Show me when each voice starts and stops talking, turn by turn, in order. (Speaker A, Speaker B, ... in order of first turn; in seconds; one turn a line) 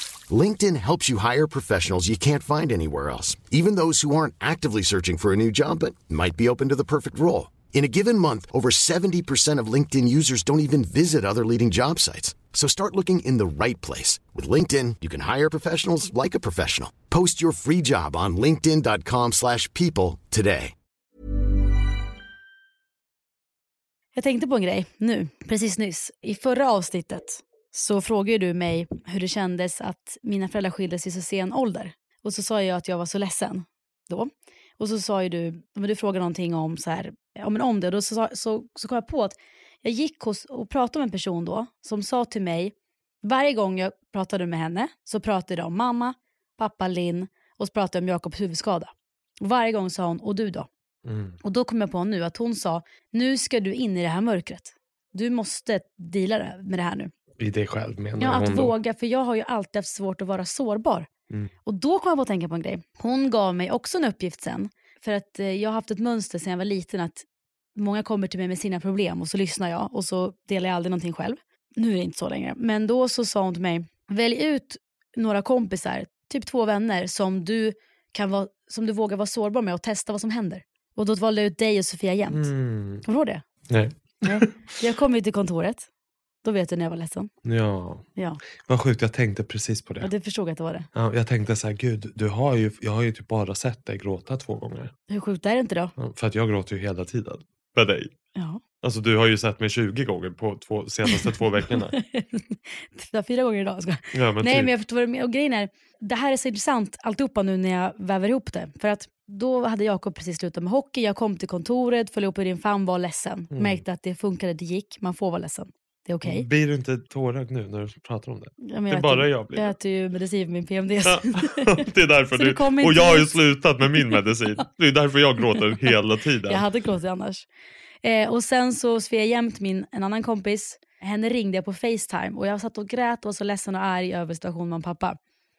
Speaker A: 0.3-20.7
Speaker B: 24.1-50.7
Speaker C: 51.0-51.4
Speaker B: 51.4-57.1
Speaker C: 57.4-58.7
Speaker B: 58.2-61.1
Speaker B: 61.6-82.5
Speaker C: 82.3-83.0
Speaker B: 83.0-83.4
Speaker C: 83.7-84.6
Speaker B: 84.2-85.9
Speaker B: 86.4-87.3
Speaker C: 87.4-88.0
Speaker C: 88.6-90.1
Speaker B: 90.0-90.9
Speaker C: 90.9-94.9
Speaker B: 95.1-95.9
Speaker C: 96.0-98.1
Speaker B: 98.3-98.6
Speaker C: 98.8-101.9
Speaker B: 101.9-116.5
Speaker C: 104.1-104.7
Speaker C: 113.5-113.8
Speaker C: 116.2-119.7
Speaker B: 118.6-123.4
Speaker C: 121.0-126.6
Speaker B: 126.5-127.5
Speaker B: 128.0-135.2